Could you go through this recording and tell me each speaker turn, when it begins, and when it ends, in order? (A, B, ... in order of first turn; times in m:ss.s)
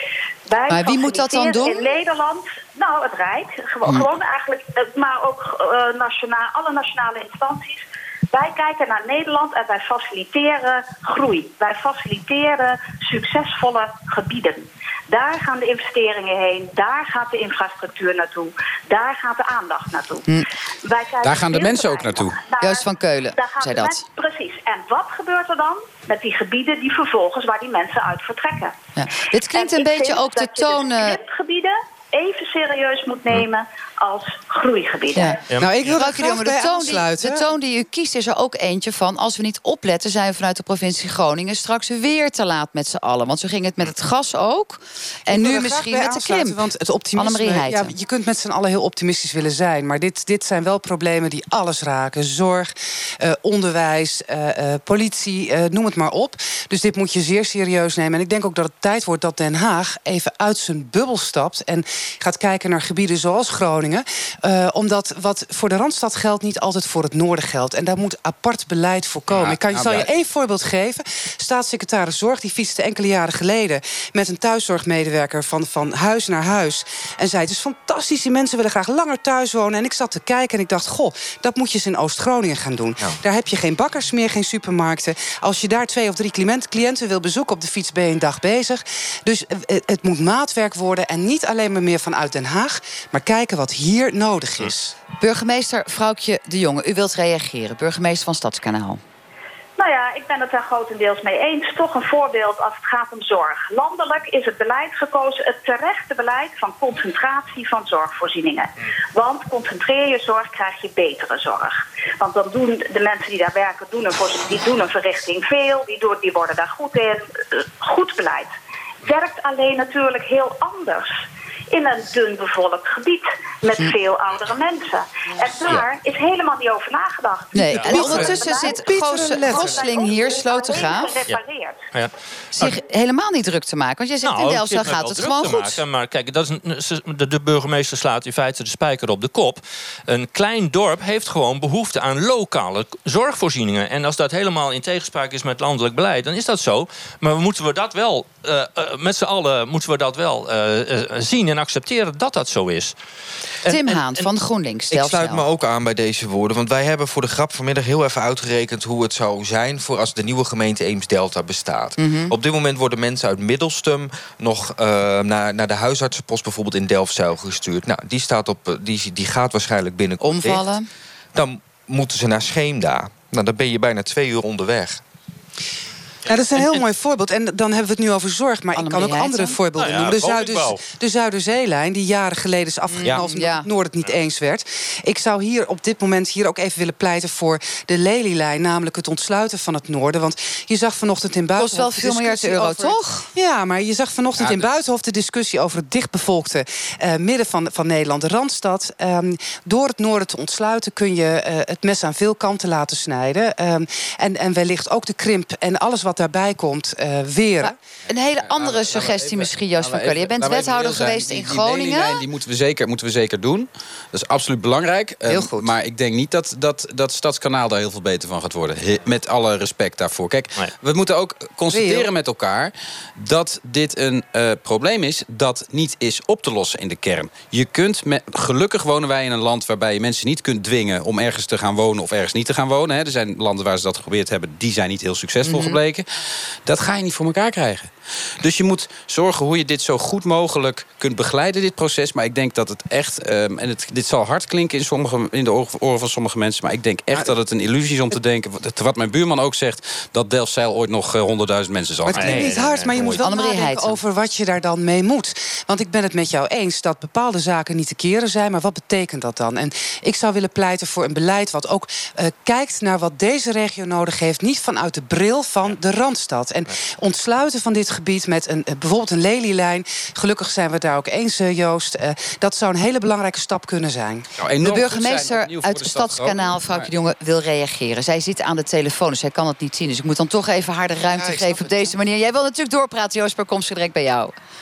0:00.5-0:28.7 A
0:00.7-0:01.9 B
0:21.2-0:22.4 C
0:22.6-0:24.0 B
0:29.0-0:31.2 B
0:29.5-0:35.4 A
0:35.1-0:35.4 B
0:35.5-0:35.9 D
0:35.5-0:37.5 E
0:35.9-0:47.9 B
0:45.3-1:34.9 E
1:09.3-1:10.1 C
1:35.2-1:39.0 B
1:39.8-1:58.5 A
1:59.0-2:01.1 A
2:01.7-2:08.8 A
2:07.5-2:11.2 B
2:07.7-2:08.2 D
2:07.9-2:09.8 E
2:09.4-2:11.8 A
2:12.5-2:15.8 B
2:14.2-2:32.9 D
2:33.6-2:34.3 D
2:33.6-2:35.4 B
2:34.9-2:50.7 F
2:42.0-2:42.3 B
2:50.2-2:50.9 B
2:51.3-2:55.0 F
2:56.2-3:27.7 E
2:56.5-2:56.8 D
2:58.7-2:59.6 B
2:59.8-3:00.8 D
3:02.9-3:03.7 B
3:11.6-3:13.3 B
3:14.4-3:14.7 C
3:27.6-3:32.2 B
3:28.3-3:56.0 C
3:35.3-3:35.7 B
3:41.7-3:42.1 E
3:55.4-3:55.8 B
3:56.6-4:12.5 C
4:12.1-4:12.9 D
4:12.1-4:13.3 F
4:12.2-4:34.3 E
4:13.2-4:14.0 B
4:34.4-4:36.9 C
4:34.6-4:44.3 B